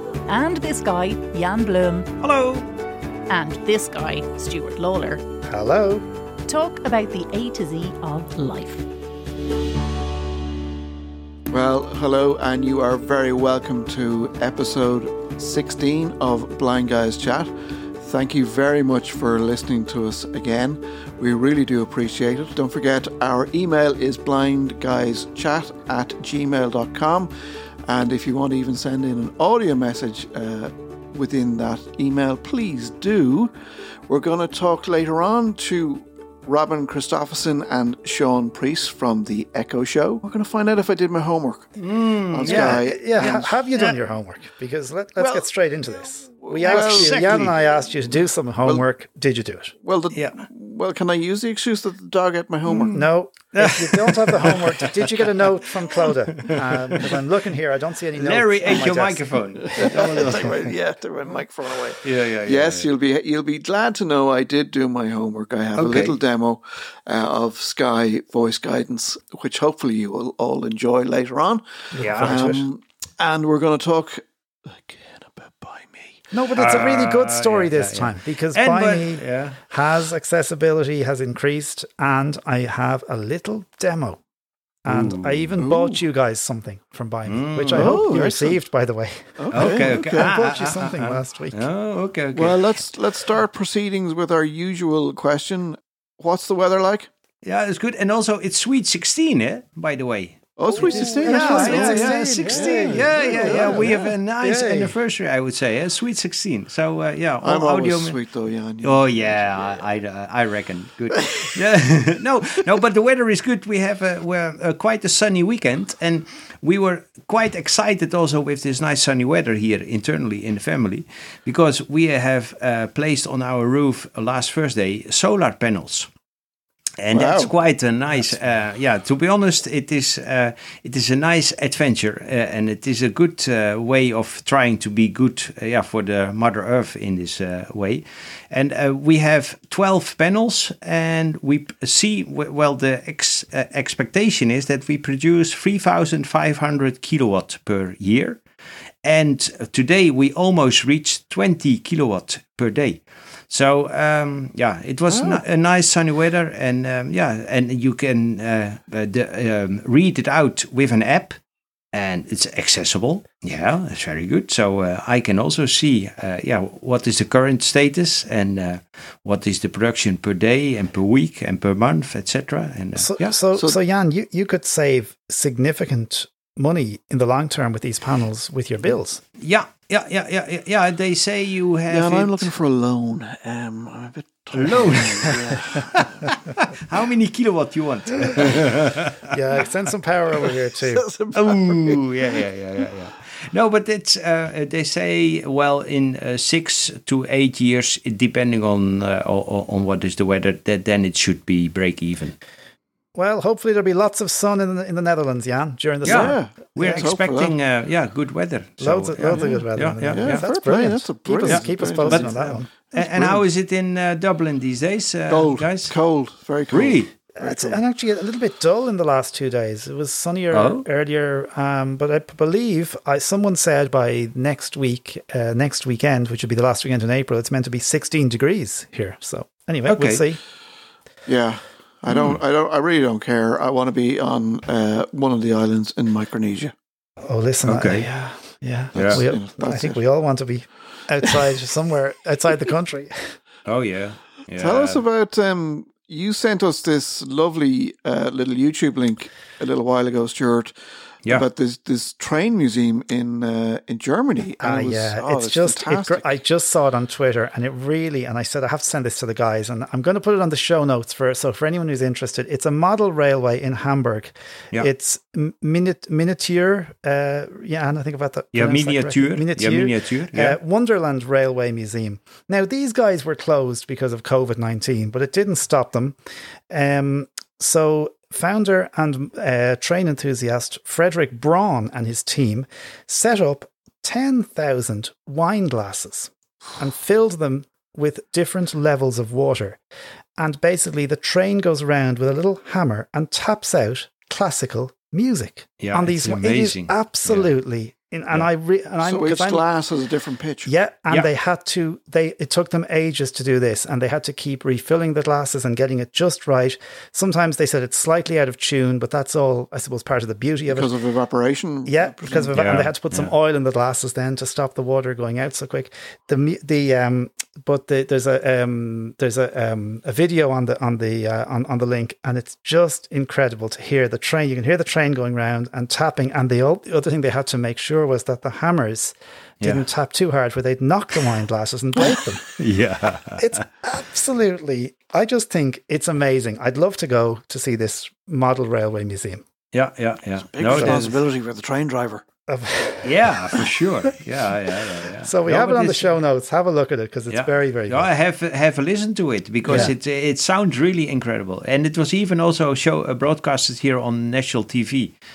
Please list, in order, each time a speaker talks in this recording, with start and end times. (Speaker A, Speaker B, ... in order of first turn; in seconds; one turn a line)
Speaker A: 0.3-2.1
Speaker B: 2.2-2.7
Speaker A: 3.3-5.2
Speaker C: 5.5-6.0
Speaker A: 6.5-8.9
Speaker D: 11.5-27.3
Speaker D: 27.9-33.5
Speaker D: 34.1-41.7
Speaker B: 41.8-44.0
Speaker D: 42.3-43.5
Speaker C: 42.4-49.8
Speaker D: 45.2-45.5
Speaker D: 46.4-47.9
Speaker B: 46.6-47.6
Speaker D: 49.8-53.0
Speaker B: 50.1-50.4
Speaker B: 52.7-53.0
Speaker C: 52.9-60.5
Speaker B: 53.5-55.3
Speaker B: 56.4-57.1
Speaker B: 58.2-60.7
Speaker D: 59.8-76.2
Speaker B: 62.0-62.9
Speaker B: 65.8-66.2
Speaker C: 71.9-72.7
Speaker B: 72.0-72.6
Speaker C: 76.3-84.2
Speaker B: 76.6-79.6
Speaker C: 84.8-91.7
Speaker B: 84.9-85.6
Speaker D: 85.6-86.0
Speaker B: 87.3-88.0
Speaker D: 87.7-88.6
Speaker D: 89.4-90.3
Speaker B: 89.5-92.7
Speaker D: 92.3-97.1
Speaker B: 97.4-108.2
Speaker D: 100.6-104.1
Speaker C: 100.7-105.0
Speaker D: 107.4-109.8
Speaker B: 108.8-126.1
Speaker B: 127.0-148.4
Speaker D: 127.1-127.5
Speaker B: 149.0-161.4
Speaker D: 155.1-155.4
Speaker B: 161.9-173.3
Speaker C: 172.9-179.2
Speaker B: 179.4-182.5
Speaker D: 181.9-186.3
Speaker B: 184.5-189.3
Speaker C: 189.3-191.1
Speaker D: 190.8-192.0
Speaker B: 191.3-202.4
Speaker C: 203.2-207.1
Speaker B: 206.0-210.5
Speaker D: 206.1-207.6
Speaker C: 208.8-212.7
Speaker D: 209.3-213.4
Speaker B: 211.4-215.9
Speaker D: 215.3-217.8
Speaker B: 216.7-217.1
Speaker C: 217.4-230.4
Speaker B: 220.5-220.8
Speaker B: 229.9-230.2
Speaker D: 231.3-236.7
Speaker B: 232.1-232.4
Speaker C: 237.2-243.2
Speaker B: 237.7-238.1
Speaker D: 238.9-240.0
Speaker B: 239.0-239.2
Speaker B: 243.7-245.0
Speaker D: 244.6-250.8
Speaker D: 251.3-256.2
Speaker C: 254.6-276.2
Speaker B: 268.5-270.6
Speaker C: 276.7-289.8
Speaker C: 290.4-299.6
Speaker B: 295.8-297.5
Speaker D: 299.0-300.7
Speaker C: 300.7-310.9
Speaker D: 310.7-312.6
Speaker C: 311.9-332.6
Speaker B: 312.5-313.3
Speaker B: 332.6-333.6
Speaker C: 333.4-339.4
Speaker B: 339.7-341.2
Speaker D: 340.5-342.2
Speaker C: 340.7-341.0
Speaker C: 342.5-343.3
Speaker B: 343.0-346.1
Speaker C: 345.2-348.1
Speaker B: 347.3-355.1
Speaker C: 349.6-349.9